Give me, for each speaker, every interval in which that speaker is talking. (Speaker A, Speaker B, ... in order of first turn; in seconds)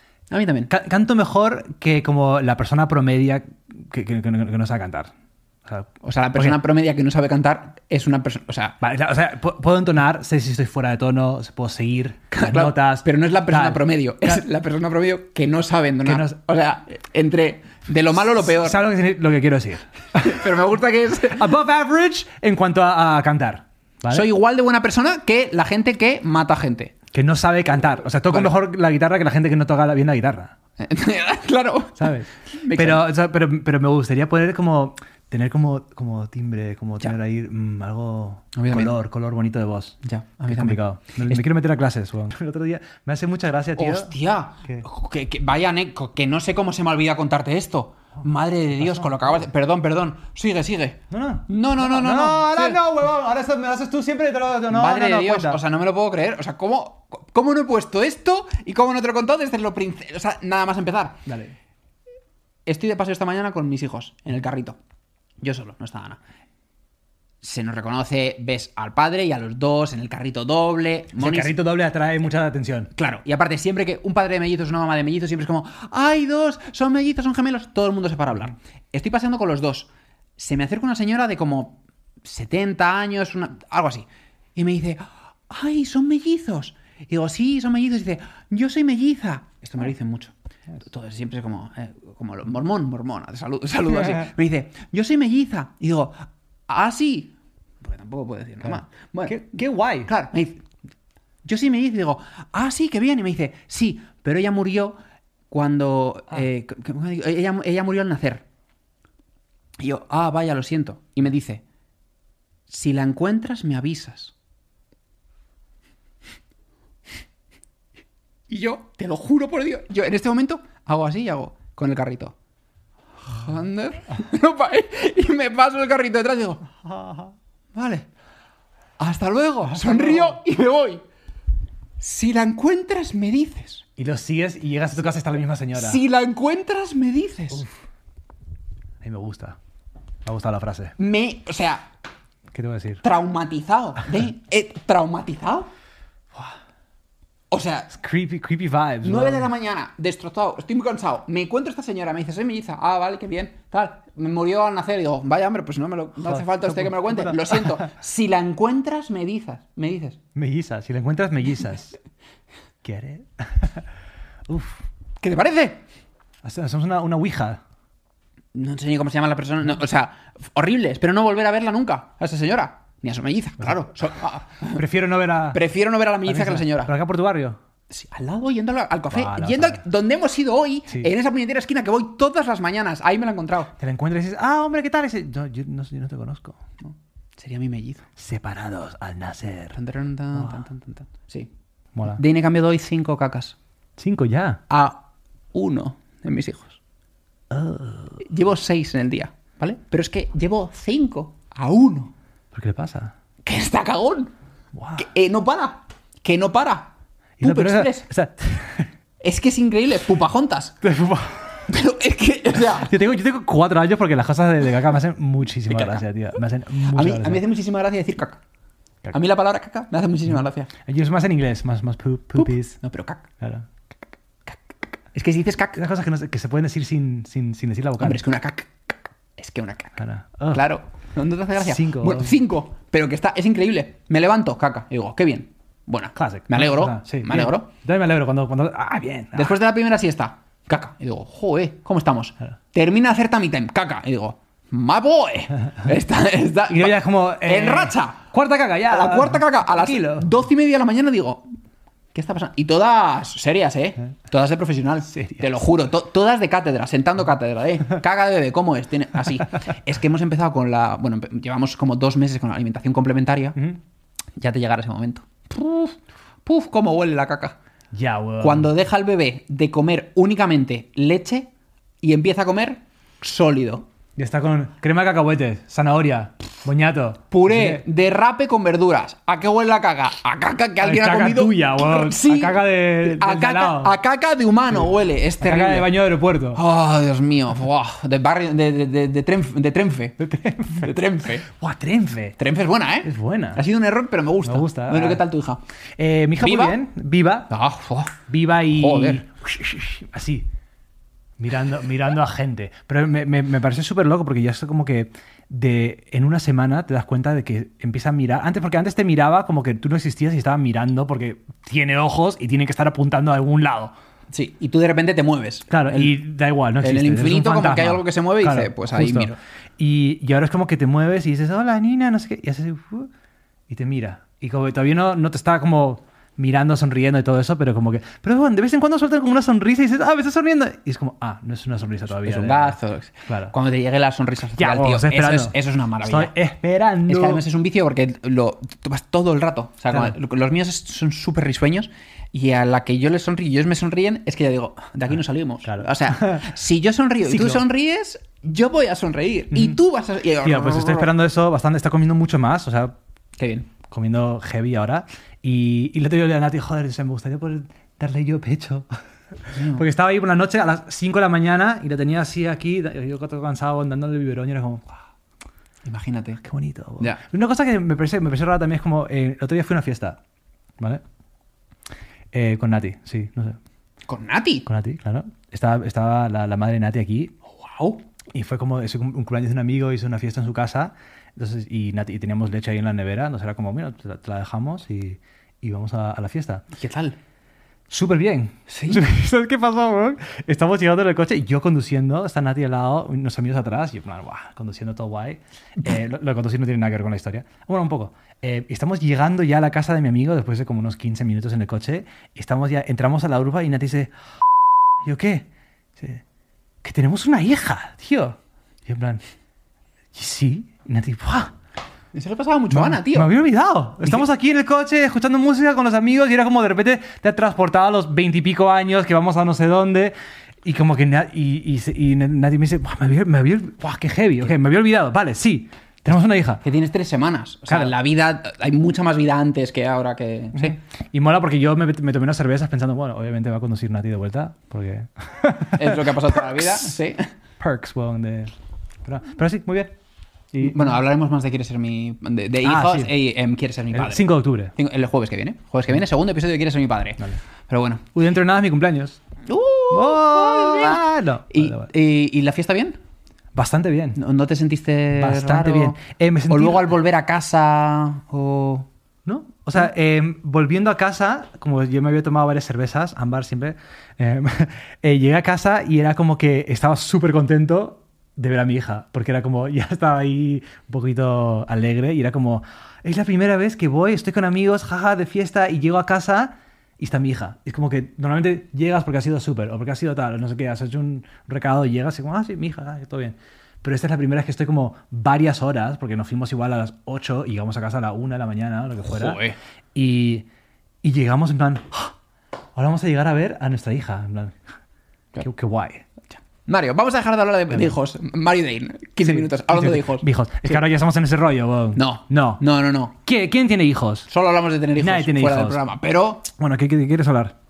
Speaker A: 0.3-0.7, 6.0-8.8, 12.3-18.8, 20.1-21.5, 24.1-26.9, 30.8-33.0, 38.5-38.9, 40.0-41.4, 43.8-52.8, 54.7-61.2, 62.6-64.8, 65.4-66.2, 67.4-71.5, 72.9-99.4, 100.0-100.6, 101.4-105.0, 105.5-108.4, 109.8-111.6, 112.7-114.3, 118.5-122.3, 123.2-126.6, 127.7-128.1, 129.0-131.0, 132.0-133.8, 135.7-137.7, 141.0-141.8, 143.0-145.7, 147.5-147.9, 149.0-160.2, 165.2-165.8, 168.5-174.8, 175.5-176.9, 177.9-183.7, 186.8-188.1, 189.7-191.5, 192.0-193.6, 194.7-195.0, 195.5-196.8, 198.2-202.1, 203.4-204.3, 205.0-208.1, 209.2-210.8, 211.7-212.9, 215.7-216.0, 216.8-218.4, 219.1-220.7, 222.4-223.3, 225.1-225.8, 228.0-230.0, 230.5-237.7, 239.3-248.3, 248.8-251.5, 252.1-263.6, 264.4-267.6, 268.4-271.5, 272.0-273.9, 277.3-285.9, 286.5-291.4, 292.4-295.6, 296.4-296.8, 297.5-299.2, 314.3-316.1, 316.8-319.4, 332.2-336.3, 337.1-351.1, 353.4-353.7, 359.5-359.9, 365.8-366.4, 374.1-374.7, 377.6-378.0, 386.8-387.2, 388.7-389.1, 412.1-413.3, 426.6-430.8, 435.7-437.3, 440.6-448.0, 449.4-453.0, 454.1-456.0, 456.5-458.9, 489.0-489.6, 496.5-500.8, 501.9-503.1, 504.3-506.4
Speaker B: 0.7-5.1, 5.6-6.6, 8.8-14.4, 16.1-16.4, 18.3-20.4, 21.1-24.3, 27.1-30.5, 32.0-40.0, 40.5-44.1, 48.8-49.4, 51.1-55.6, 61.2-61.5, 71.2-72.9, 94.0-94.3, 99.2-100.1, 127.0-127.3, 129.7-130.4, 134.0-136.0, 139.0-139.6, 140.2-140.9, 142.5-143.0, 147.9-149.5, 156.2-157.8, 160.3-162.0, 162.8-163.8, 164.5-164.8, 166.4-167.6, 174.7-175.6, 176.2-177.6, 179.1-179.8, 183.8-186.6, 188.2-189.8, 191.9-192.2, 194.0-194.6, 197.5-198.2, 202.5-203.1, 204.7-205.1, 207.4-208.9, 210.8-211.6, 212.6-217.4, 220.8-222.8, 223.4-223.7, 225.7-228.2, 230.0-230.6, 231.6-232.3, 236.2-239.6, 246.7-250.3, 267.9-268.7, 274.1-277.8, 280.8-284.0, 285.4-286.6, 290.2-290.9, 291.4-292.4, 293.0-293.6, 294.4-295.2, 296.0-297.5, 298.3-300.5, 301.4-313.9, 315.7-323.1, 323.7-333.5, 334.6-337.4, 345.6-346.5, 347.2-347.6, 349.5-349.8, 350.4-352.9, 353.9-358.9, 359.4-364.8, 366.4-370.2, 372.3-373.6, 374.7-377.3, 378.3-386.6, 387.9-404.1, 405.0-405.4, 406.0-406.2, 406.8-409.2, 410.1-411.5, 412.7-426.6, 427.7-427.9, 430.6-436.8, 437.6-438.5, 439.0-439.9, 440.5-441.0, 442.6-443.1, 443.9-444.7, 448.1-449.2, 449.9-451.9, 453.5-454.2, 455.2-456.9, 459.2-489.4, 489.9-490.4, 491.0-492.1, 492.7-494.5, 495.4-496.1, 499.2-502.6, 503.2-504.3, 505.0-505.8, 506.6-507.5